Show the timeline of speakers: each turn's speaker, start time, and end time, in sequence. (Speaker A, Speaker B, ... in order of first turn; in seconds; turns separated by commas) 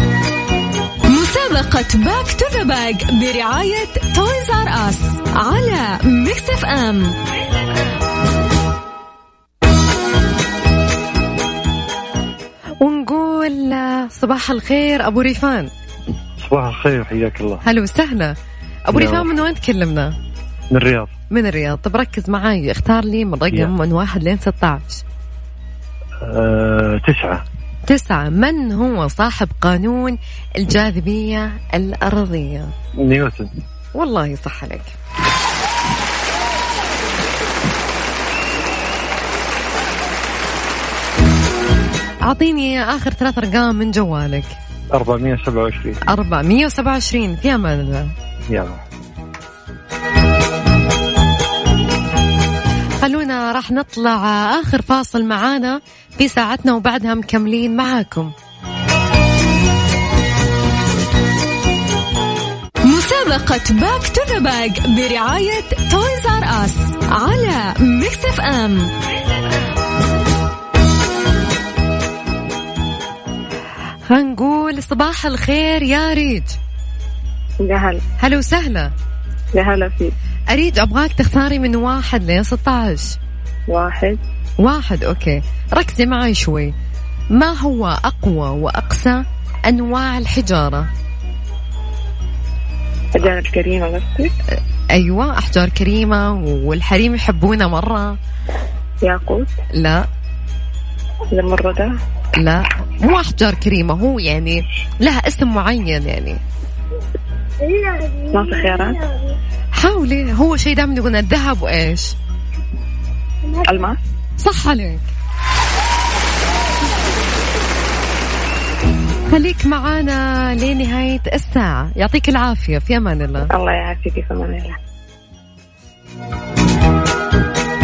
Speaker A: 1.1-7.1, Speaker B: 12.8-15.7, Speaker C: 16.4-17.6, Speaker B: 17.6-18.4, Speaker B: 18.9-20.1, Speaker C: 18.9-19.3, Speaker C: 20.7-21.1, Speaker B: 21.3-25.0, Speaker C: 26.2-27.4, Speaker B: 27.9-32.7, Speaker C: 33.0-33.5, Speaker B: 34.0-35.0, Speaker B: 42.3-44.5, Speaker C: 44.9-46.0, Speaker B: 46.1-48.1, Speaker C: 48.5-48.8, Speaker B: 53.0-58.3, Speaker A: 62.9-68.9, Speaker B: 74.1-76.6, Speaker D: 77.6-78.0, Speaker B: 78.2-78.9, Speaker D: 79.5-80.1, Speaker B: 80.5-83.2, Speaker D: 83.7-84.2, Speaker B: 84.6-86.7, Speaker B: 87.3-90.9, Speaker D: 93.2-94.3, Speaker B: 94.9-98.2, Speaker D: 99.0-99.5, Speaker B: 99.8-100.1, Speaker D: 101.3-101.9, Speaker B: 102.4-106.4, Speaker D: 108.3-109.0, Speaker B: 109.8-112.1, Speaker D: 113.7-114.0, Speaker B: 114.4-115.1, Speaker B: 119.3-123.5, Speaker D: 123.5-124.8